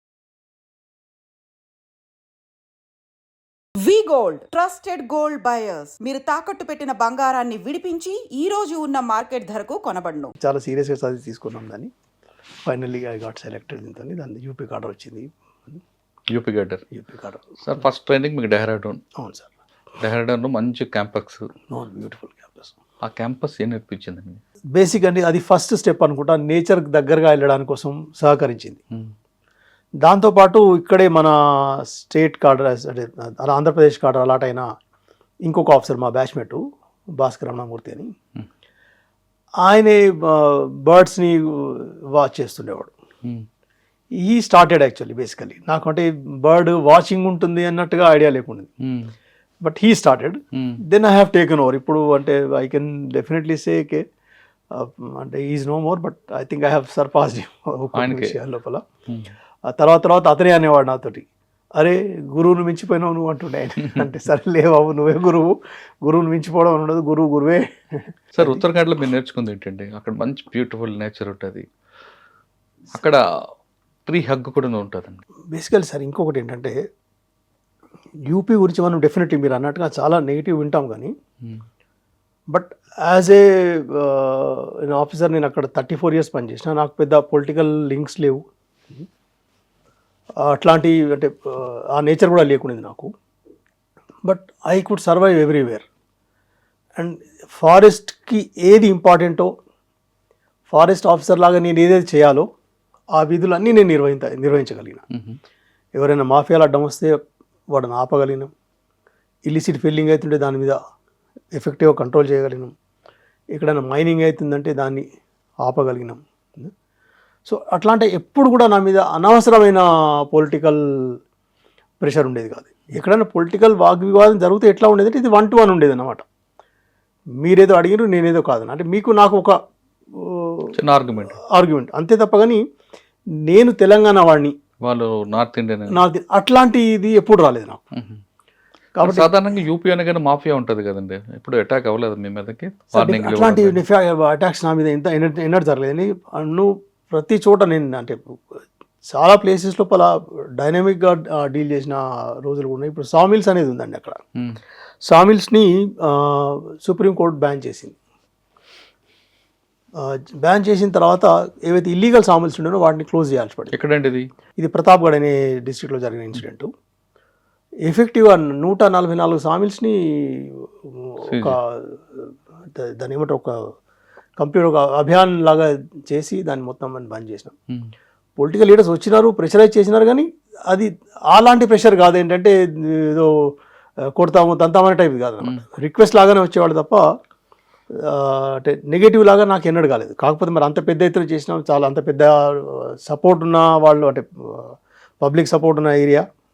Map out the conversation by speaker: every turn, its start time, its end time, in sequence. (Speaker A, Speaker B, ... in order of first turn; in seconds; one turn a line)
Speaker A: 3.8-10.3
Speaker B: 10.4-11.9
Speaker B: 12.7-15.8
Speaker C: 16.3-16.8
Speaker B: 16.9-17.6
Speaker C: 17.6-19.0
Speaker B: 19.2-19.5
Speaker C: 20.0-21.5
Speaker B: 21.7-22.7
Speaker C: 23.1-24.4
Speaker B: 24.8-28.8
Speaker B: 30.0-34.7
Speaker B: 35.5-36.6
Speaker B: 37.2-38.1
Speaker B: 39.6-42.9
Speaker B: 44.2-48.7
Speaker C: 48.8-49.1
Speaker B: 49.6-54.0
Speaker C: 50.5-50.8
Speaker B: 54.7-58.9
Speaker C: 58.0-58.4
Speaker C: 59.1-59.3
Speaker B: 59.7-68.6
Speaker C: 68.3-71.6
Speaker C: 74.1-75.2
Speaker B: 75.5-76.8
Speaker B: 78.3-81.1
Speaker B: 82.5-89.1
Speaker B: 90.4-93.1
Speaker B: 94.2-95.9
Speaker B: 97.0-99.5
Speaker B: 100.7-102.5
Speaker B: 103.2-105.0
Speaker C: 105.1-105.4
Speaker B: 106.0-107.2
Speaker B: 107.7-108.5
Speaker B: 109.5-110.8
Speaker B: 111.5-112.7
Speaker B: 113.5-115.0
Speaker B: 115.6-116.7
Speaker B: 117.5-121.0
Speaker B: 122.0-126.2
Speaker B: 127.4-129.6
Speaker B: 130.1-130.8
Speaker C: 130.8-131.4
Speaker B: 131.3-132.6
Speaker B: 133.4-134.5
Speaker C: 134.8-136.0
Speaker B: 135.9-137.8
Speaker C: 138.0-138.2
Speaker B: 139.0-139.4
Speaker C: 139.0-143.8
Speaker B: 142.9-148.3
Speaker B: 149.1-154.2
Speaker B: 155.0-158.0
Speaker B: 160.0-163.8
Speaker C: 163.7-164.3
Speaker B: 164.6-166.7
Speaker B: 167.8-173.6
Speaker C: 171.3-171.6
Speaker B: 174.4-177.6
Speaker B: 178.4-183.5
Speaker B: 184.2-187.1
Speaker B: 187.9-196.2